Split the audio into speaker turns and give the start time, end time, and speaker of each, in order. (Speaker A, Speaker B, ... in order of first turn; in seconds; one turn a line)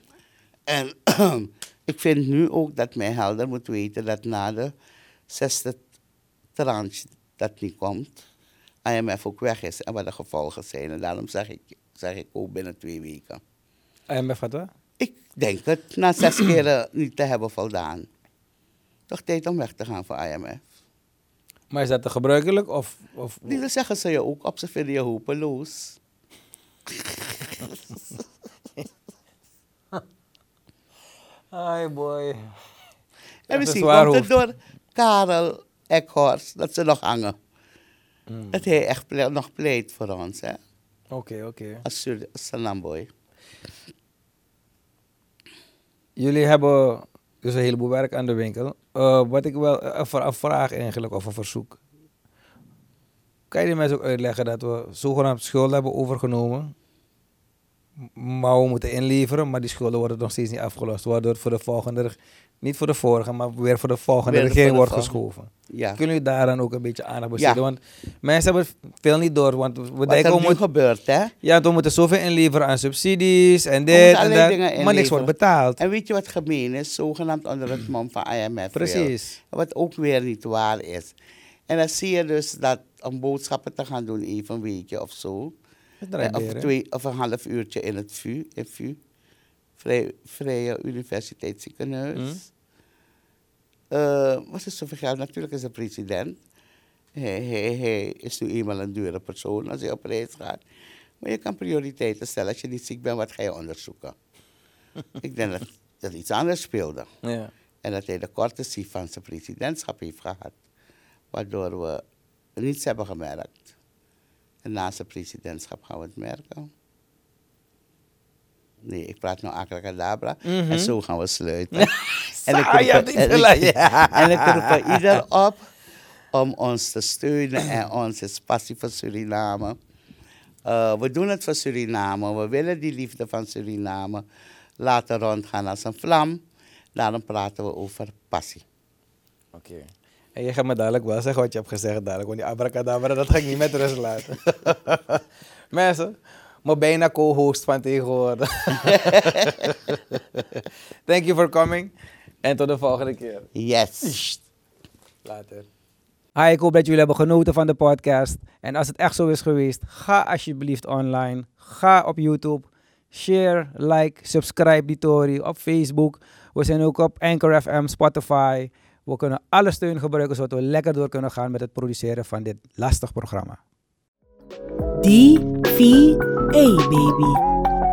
Speaker A: 0.7-4.7
Speaker A: 5.3-5.8
Speaker A: 6.5-8.2
Speaker A: 8.9-13.4
Speaker B: 14.1-14.7
Speaker A: 15.0-18.1
Speaker A: 19.1-20.6
Speaker B: 21.7-23.6
Speaker A: 23.5-26.0
Speaker A: 27.3-27.8
Speaker B: 31.5-32.6
Speaker A: 33.5-37.4
Speaker B: 33.5-34.3
Speaker B: 38.3-38.6
Speaker A: 38.5-40.6
Speaker B: 41.1-41.8
Speaker A: 41.8-43.1
Speaker B: 46.2-51.8
Speaker B: 53.5-56.7
Speaker B: 58.1-70.6
Speaker A: 64.3-66.0
Speaker A: 67.4-67.6
Speaker A: 70.1-71.3
Speaker B: 71.4-75.8
Speaker A: 73.9-81.2
Speaker B: 78.7-79.4
Speaker A: 81.7-85.5
Speaker B: 86.0-86.7
Speaker A: 86.2-89.0
Speaker A: 89.8-92.5
Speaker A: 93.9-96.4
Speaker A: 97.2-100.6
Speaker A: 101.2-104.2
Speaker A: 105.2-107.1
Speaker B: 107.2-107.5
Speaker A: 107.8-110.6
Speaker A: 111.3-112.0
Speaker A: 112.6-113.7
Speaker A: 114.6-116.7
Speaker A: 118.8-121.9
Speaker B: 120.5-120.9
Speaker B: 121.7-125.2
Speaker A: 122.5-125.7
Speaker A: 126.3-129.8
Speaker A: 130.7-134.2
Speaker A: 134.8-136.4
Speaker A: 137.0-138.6
Speaker B: 139.5-151.9
Speaker A: 148.8-149.6
Speaker B: 152.4-153.5
Speaker A: 153.6-154.4
Speaker B: 155.2-155.7
Speaker B: 156.4-173.6
Speaker C: 175.0-177.4